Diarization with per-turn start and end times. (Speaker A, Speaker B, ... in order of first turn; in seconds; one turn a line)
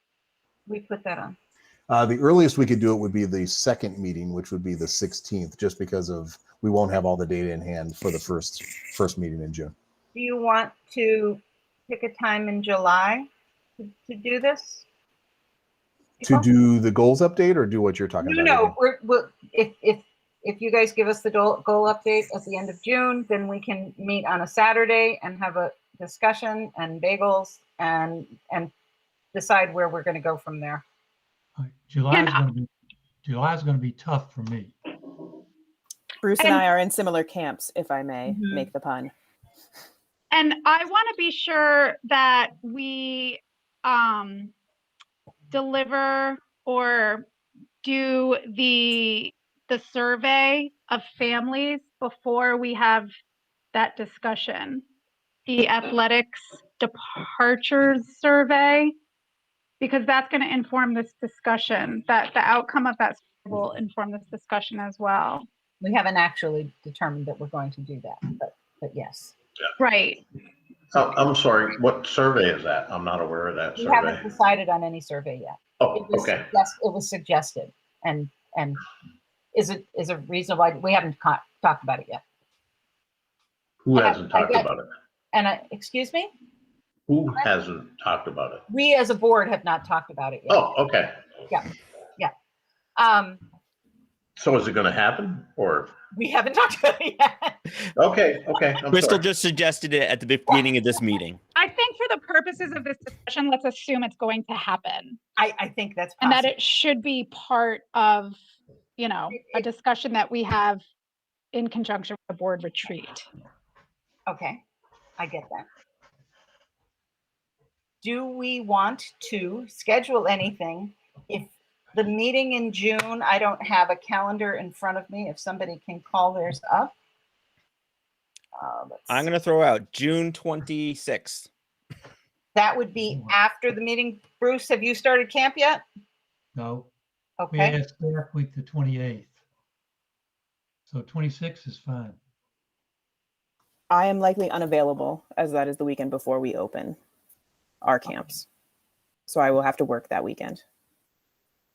Speaker A: 0.7-1.4
Speaker B: 1.9-9.7
Speaker A: 10.1-13.3
Speaker A: 13.8-14.8
Speaker A: 16.2-16.4
Speaker B: 16.2-18.7
Speaker A: 18.2-28.7
Speaker A: 29.3-30.8
Speaker C: 31.6-32.7
Speaker D: 32.1-32.4
Speaker C: 33.2-34.7
Speaker E: 36.2-39.1
Speaker A: 38.3-38.6
Speaker D: 40.3-44.5
Speaker D: 45.5-47.2
Speaker D: 47.8-53.1
Speaker D: 53.7-54.8
Speaker D: 55.5-58.9
Speaker D: 59.8-65.5
Speaker A: 65.8-69.3
Speaker D: 69.8-70.2
Speaker F: 70.9-74.2
Speaker A: 73.8-78.8
Speaker F: 75.8-76.5
Speaker A: 79.5-82.2
Speaker F: 83.8-84.9
Speaker A: 83.9-84.7
Speaker A: 85.3-86.3
Speaker F: 87.1-88.6
Speaker A: 88.7-90.7
Speaker F: 90.5-91.1
Speaker A: 91.5-92.3
Speaker A: 93.0-93.4
Speaker F: 94.4-95.9
Speaker A: 96.1-97.6
Speaker F: 98.0-99.2
Speaker G: 98.9-101.4
Speaker D: 101.5-105.2
Speaker A: 105.4-106.5
Speaker D: 106.2-108.4
Speaker D: 109.0-110.8
Speaker A: 109.3-109.6
Speaker D: 111.5-113.2
Speaker A: 114.3-114.6
Speaker A: 115.2-115.7
Speaker A: 118.0-126.9
Speaker A: 128.6-129.2
Speaker G: 129.1-131.5
Speaker A: 132.5-135.8
Speaker C: 133.1-133.3
Speaker C: 136.5-136.9
Speaker A: 137.4-137.8
Speaker C: 137.5-139.3
Speaker C: 140.9-142.2
Speaker E: 143.9-147.0
Speaker E: 147.8-148.4
Speaker E: 149.3-150.6